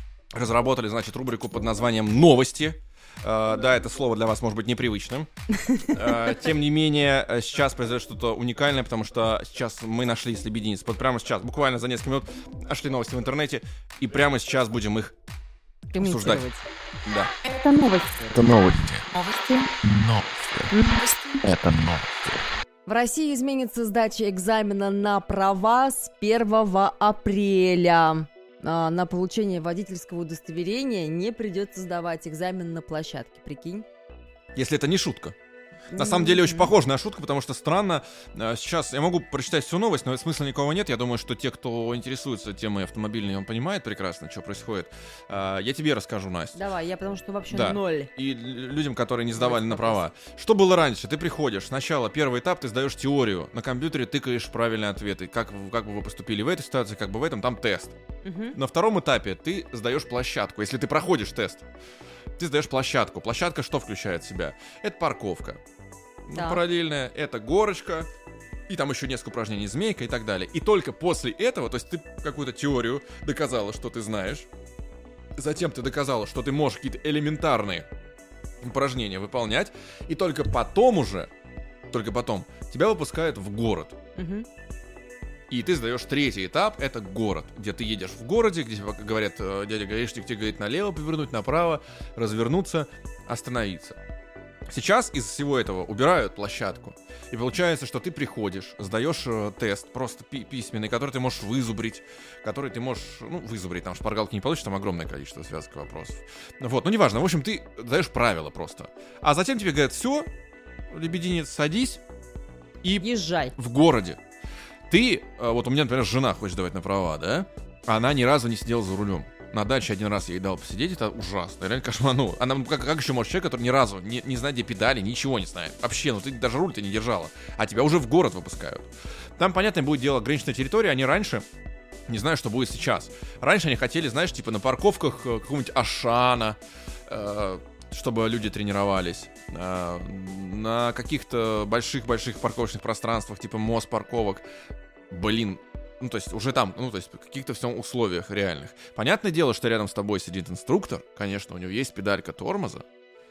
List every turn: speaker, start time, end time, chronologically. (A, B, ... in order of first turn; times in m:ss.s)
0:00.3-0:15.2 A
0:05.5-0:06.0 B
0:15.9-0:16.7 B
0:16.0-0:16.4 A
0:17.1-0:17.3 A
0:17.6-0:18.0 B
0:18.2-0:19.1 C
0:19.6-0:20.8 C
0:20.7-0:21.2 B
0:21.4-0:22.4 C
0:22.9-0:33.9 B
0:34.6-0:35.4 A
0:35.9-0:36.7 B
0:35.9-0:46.6 A
0:46.6-0:48.1 B
0:47.5-0:58.0 A
0:49.4-0:50.0 B
0:58.2-0:58.6 B
0:58.5-1:01.7 A
1:02.4-1:05.6 A
1:06.3-1:08.1 A
1:06.4-1:06.6 B
1:08.7-1:14.5 A
1:15.4-1:17.9 A
1:18.6-1:21.3 A
1:21.9-1:24.0 A
1:24.2-1:24.5 B
1:25.5-1:34.0 A
1:34.7-1:50.3 A
1:50.9-1:52.0 A
1:52.8-1:54.2 A
1:53.0-1:53.5 B
1:54.9-2:11.4 A
2:12.1-2:24.4 A
2:25.1-2:32.8 A